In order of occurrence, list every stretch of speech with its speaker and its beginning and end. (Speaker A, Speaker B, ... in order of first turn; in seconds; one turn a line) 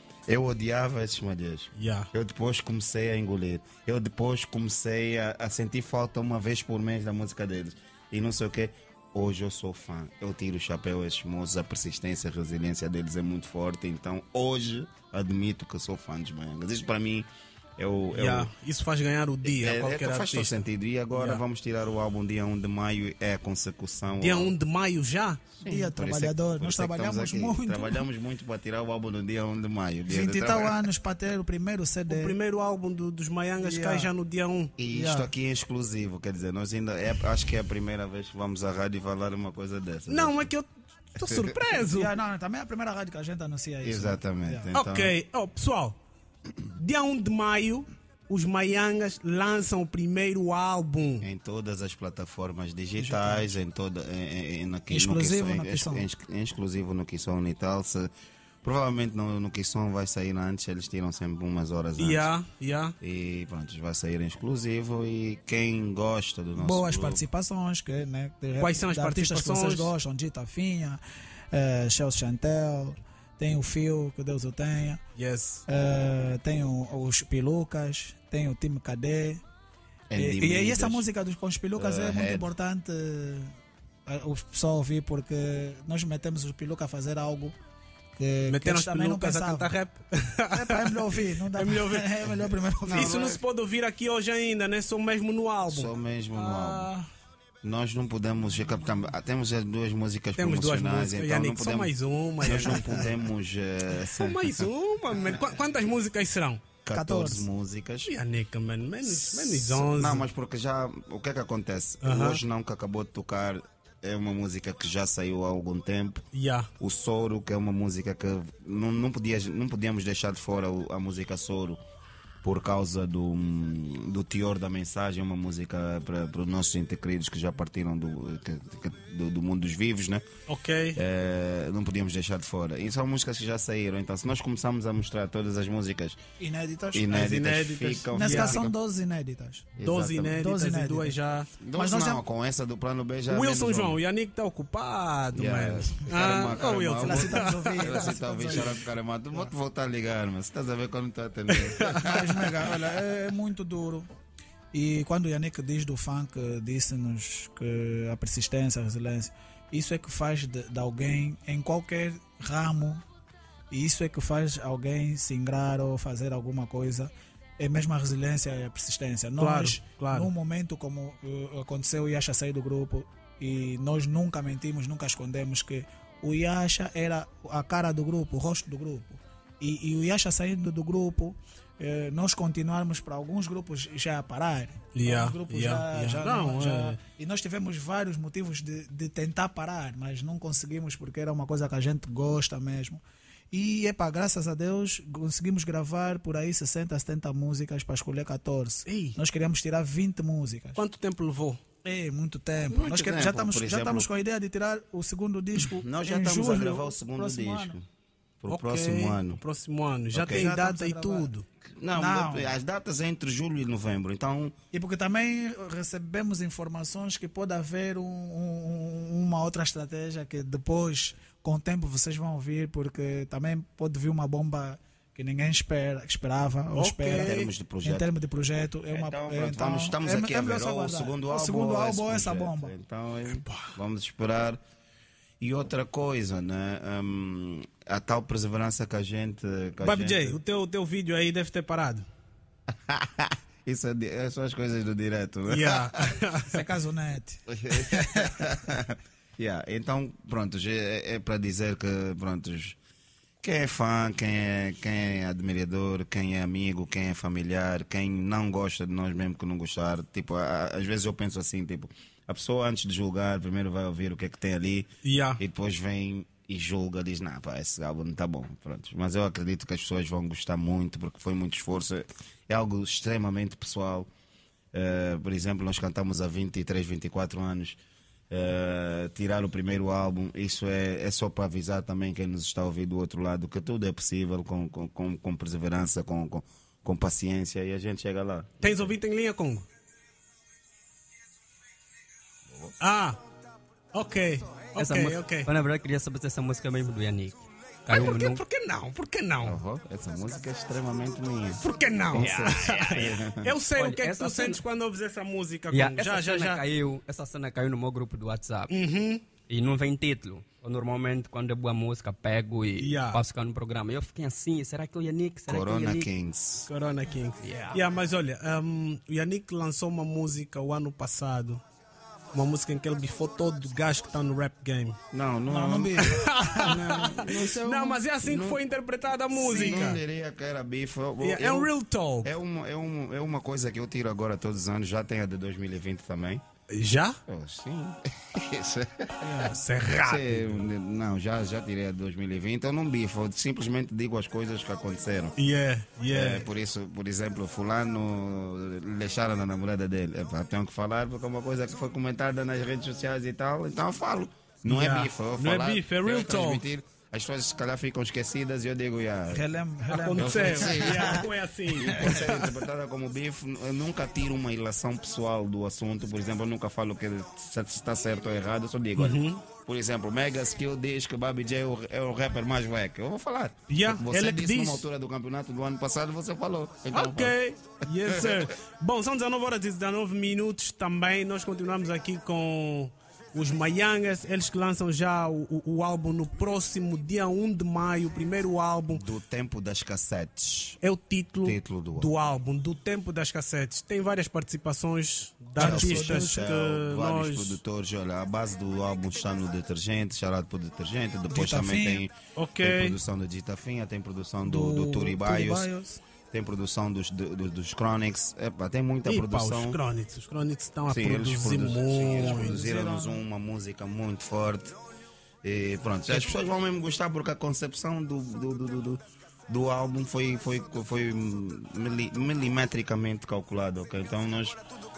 Speaker A: 0.3-18.5
Speaker B: 1.8-2.1
Speaker B: 18.1-21.4
Speaker A: 19.4-24.6
Speaker B: 24.2-25.4
Speaker A: 25.6-30.9
Speaker C: 25.6-28.0
Speaker C: 30.1-32.4
Speaker B: 32.1-34.7
Speaker C: 33.6-34.1
Speaker A: 34.8-40.5
Speaker C: 34.9-35.3
Speaker B: 40.1-42.1
Speaker A: 41.2-41.6
Speaker C: 41.8-44.7
Speaker A: 43.8-45.1
Speaker B: 44.7-46.0
Speaker B: 46.7-51.3
Speaker A: 51.2-58.1
Speaker C: 53.0-53.5
Speaker C: 54.9-56.1
Speaker A: 58.6-62.3
Speaker B: 62.0-63.0
Speaker A: 63.0-67.2
Speaker C: 66.6-71.0
Speaker B: 68.6-69.9
Speaker C: 71.5-75.0
Speaker B: 75.2-75.6
Speaker C: 75.7-79.4
Speaker A: 80.1-81.1
Speaker C: 80.2-83.5
Speaker A: 81.8-82.5
Speaker C: 84.1-87.6
Speaker C: 88.1-89.7
Speaker B: 88.5-92.3
Speaker C: 90.5-93.3
Speaker A: 92.8-93.4
Speaker B: 92.9-97.0
Speaker A: 95.7-96.9
Speaker A: 97.6-104.5
Speaker C: 98.5-99.1
Speaker B: 100.4-103.2
Speaker C: 102.5-103.1
Speaker B: 104.0-106.6
Speaker A: 106.8-108.1
Speaker C: 106.9-107.5
Speaker B: 108.1-110.3
Speaker A: 109.0-116.2
Speaker B: 112.0-112.4
Speaker B: 116.3-116.7
Speaker A: 116.8-121.8
Speaker A: 122.4-130.2
Speaker B: 130.5-131.0
Speaker A: 130.9-136.2
Speaker C: 136.4-137.3
Speaker A: 136.9-138.8
Speaker B: 137.1-138.6
Speaker C: 138.1-139.7
Speaker A: 139.8-140.4
Speaker B: 139.8-141.5
Speaker C: 140.3-141.2
Speaker A: 141.6-144.0
Speaker C: 141.7-142.2
Speaker B: 143.3-148.6
Speaker A: 145.3-152.8
Speaker C: 147.0-148.8
Speaker B: 151.5-152.1
Speaker C: 152.0-154.1
Speaker C: 154.7-163.0
Speaker C: 163.7-193.0
Speaker B: 169.4-170.3
Speaker B: 184.9-187.0
Speaker C: 193.5-200.8
Speaker B: 198.9-199.2
Speaker B: 200.8-201.6
Speaker C: 201.8-207.8
Speaker A: 202.6-204.1
Speaker A: 205.6-207.8
Speaker A: 208.4-209.4
Speaker B: 208.5-211.5
Speaker A: 210.1-210.5
Speaker C: 210.2-211.3
Speaker A: 211.6-214.6
Speaker C: 211.9-212.6
Speaker C: 214.7-232.7
Speaker B: 226.7-227.5
Speaker A: 227.1-228.1
Speaker A: 228.9-234.6
Speaker B: 233.3-233.7
Speaker A: 235.4-240.4
Speaker B: 239.8-242.1
Speaker A: 242.9-246.1
Speaker B: 245.5-246.6
Speaker C: 246.5-248.4
Speaker A: 247.5-252.8
Speaker A: 253.4-274.1
Speaker B: 265.0-265.4
Speaker A: 274.7-277.8
Speaker A: 278.3-288.9
Speaker B: 288.6-289.7
Speaker A: 292.5-292.8
Speaker B: 292.8-293.2
Speaker B: 293.9-295.5
Speaker D: 294.8-298.4
Speaker B: 297.9-299.6
Speaker A: 299.4-303.5
Speaker B: 301.6-306.7
Speaker D: 302.1-303.1
Speaker D: 303.8-304.6
Speaker D: 305.7-308.7
Speaker B: 308.7-309.3
Speaker D: 309.5-316.1
Speaker B: 312.8-313.2
Speaker A: 315.5-316.7
Speaker B: 316.7-321.6
Speaker D: 317.4-317.8
Speaker B: 322.3-325.0
Speaker A: 325.1-326.1
Speaker C: 325.5-326.8
Speaker B: 326.1-330.0
Speaker A: 326.6-328.6
Speaker A: 329.3-336.4
Speaker C: 329.5-329.9
Speaker B: 331.2-332.3
Speaker B: 336.7-337.2
Speaker A: 337.3-339.4
Speaker B: 339.2-340.6
Speaker A: 340.0-345.3
Speaker B: 345.4-346.5
Speaker A: 346.1-359.4
Speaker B: 354.7-356.7
Speaker C: 359.3-361.3
Speaker B: 359.9-362.5
Speaker A: 360.2-377.4
Speaker C: 361.9-362.2
Speaker B: 369.0-369.4
Speaker B: 373.7-374.9
Speaker B: 376.9-389.0
Speaker A: 378.1-378.5
Speaker A: 388.9-390.8
Speaker B: 390.8-397.6
Speaker A: 391.4-392.1
Speaker C: 395.6-396.5
Speaker A: 395.6-405.7
Speaker C: 401.3-402.1
Speaker B: 402.4-403.0
Speaker C: 404.4-406.0
Speaker A: 406.3-409.8
Speaker B: 409.1-412.7
Speaker A: 410.9-414.8
Speaker C: 412.2-413.2
Speaker A: 415.4-424.6